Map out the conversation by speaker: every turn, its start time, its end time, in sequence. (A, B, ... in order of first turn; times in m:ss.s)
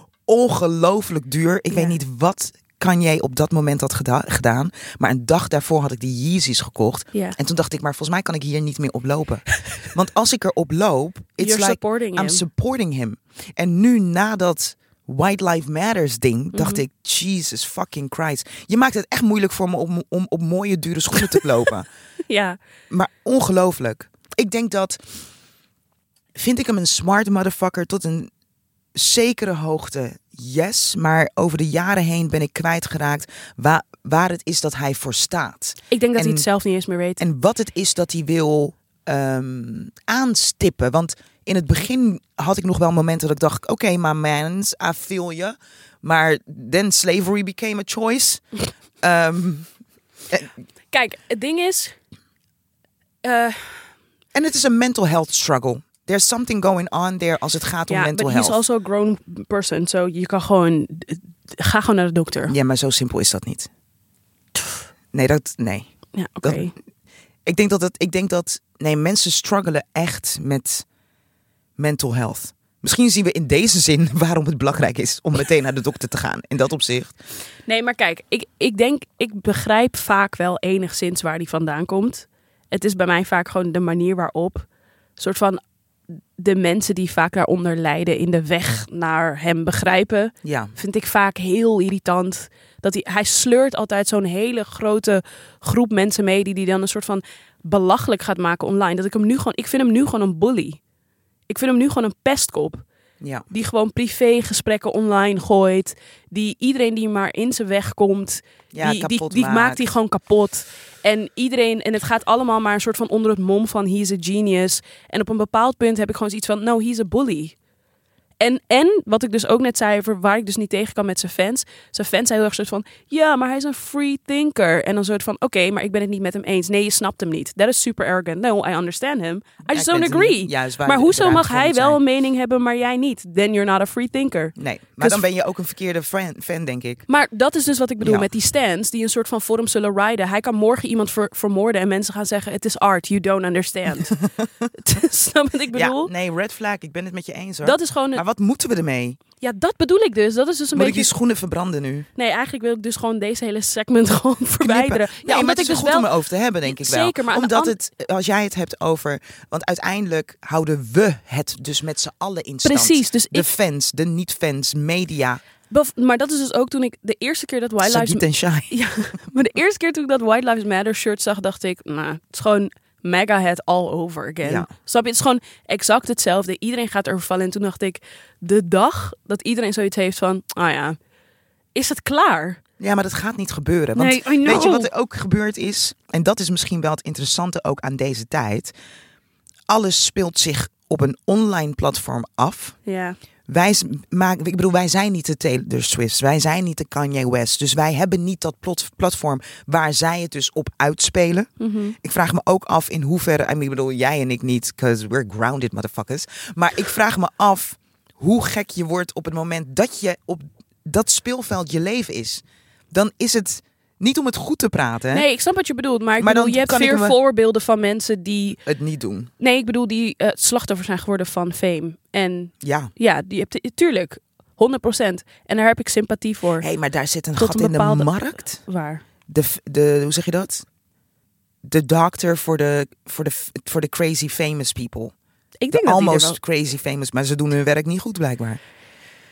0:00.2-0:21.9 A
0:11.4-0:12.4 B
0:16.5-0:16.8 B
0:22.3-0:22.6 B
0:22.9-0:25.2 A
0:26.3-0:28.3 A
0:28.9-0:36.5 A
0:35.9-0:37.2 B
0:37.2-0:48.4 A
0:49.0-0:49.7 A
0:50.9-0:52.0 B
0:53.2-0:53.9 B
0:54.3-0:58.6 A
0:57.9-1:02.5 B
1:02.5-1:03.7 A
1:05.1-1:05.9 A
1:06.1-1:06.7 B
1:06.4-1:06.7 A
1:07.4-1:10.8 A
1:11.8-1:17.2 A
1:17.7-1:25.6 B
1:26.4-1:40.8 B
1:30.4-1:30.7 A
1:41.5-1:42.8 B
1:43.5-1:57.5 B
1:48.7-1:49.8 A
1:58.4-2:15.2 B
2:09.7-2:12.0 A
2:14.6-2:17.0 A
2:17.1-2:26.1 B
2:18.0-2:18.3 A
2:25.7-2:29.2 A
2:27.6-2:28.2 B
2:29.4-2:31.1 B
2:30.7-2:32.1 A
2:32.1-2:36.1 B
2:34.6-2:45.4 A
2:36.6-2:37.7 B
2:42.6-2:43.5 B
2:45.7-3:01.0 B
2:47.8-2:48.7 A
2:54.4-2:54.7 A
3:01.7-3:02.6 B
3:02.8-3:08.7 A
3:04.0-3:04.9 B
3:09.7-3:12.8 A
3:12.8-3:13.2 B
3:13.5-3:35.2 A
3:21.6-3:22.0 B
3:35.1-3:38.6 B
3:36.2-3:37.2 A
3:38.6-3:39.3 A
3:39.4-3:46.6 B
3:42.6-3:42.9 A
3:46.6-3:48.6 A
3:47.4-3:49.0 B
3:49.3-3:50.6 A
3:51.6-3:55.1 A
3:55.6-3:56.4 B
3:55.7-3:58.6 A